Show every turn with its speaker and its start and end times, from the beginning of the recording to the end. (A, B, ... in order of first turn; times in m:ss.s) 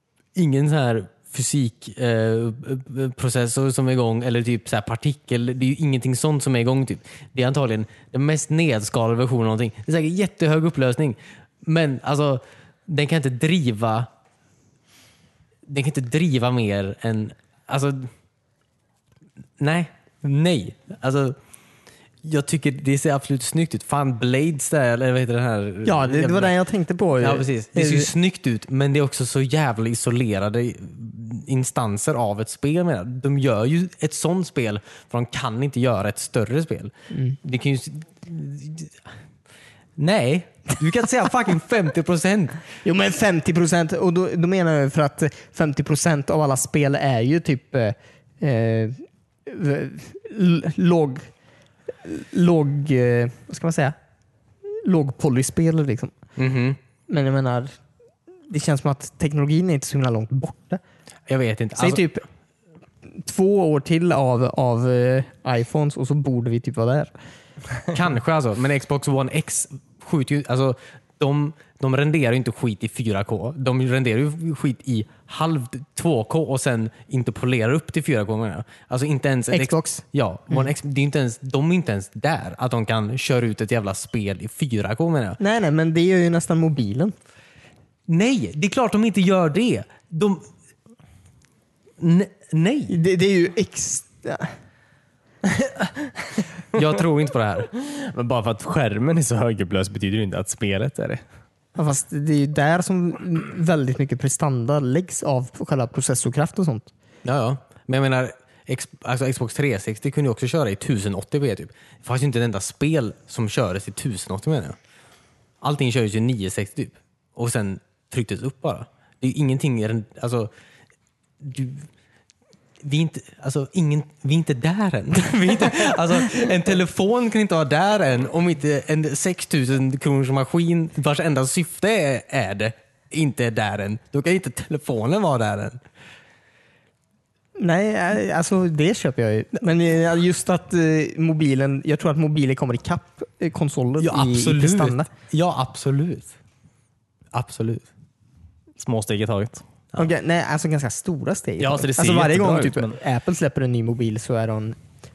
0:00.4-0:14.1 A
0:15.7-0:18.1 A
0:19.6-0:21.4 A
0:22.2-0:26.6 A
0:25.8-0:28.1 B
0:27.2-0:39.0 A
0:40.0-0:42.6 A
0:42.8-0:51.3 B
0:52.0-0:54.0 B
0:54.6-0:56.2 B
0:56.4-0:56.8 A
0:57.1-0:57.8 B
0:58.5-1:00.8 B
1:01.3-1:02.1 A
1:01.8-1:02.2 B
1:03.0-1:07.1 B
1:07.9-1:25.4 A
1:19.5-1:20.0 B
1:25.4-1:27.2 B
1:28.1-1:30.5 A
1:32.0-1:33.0 A
1:32.9-1:34.5 B
1:36.7-1:37.7 A
1:37.8-1:41.2 C
1:41.8-1:46.9 B
1:47.2-1:54.8 A
1:55.6-2:00.5 A
2:01.4-2:01.9 A
2:02.8-2:15.8 A
2:17.6-2:25.1 B
2:24.0-2:26.3 A
2:27.3-2:27.9 A
2:28.8-2:29.6 C
2:30.0-2:34.8 B
2:31.6-2:33.0 C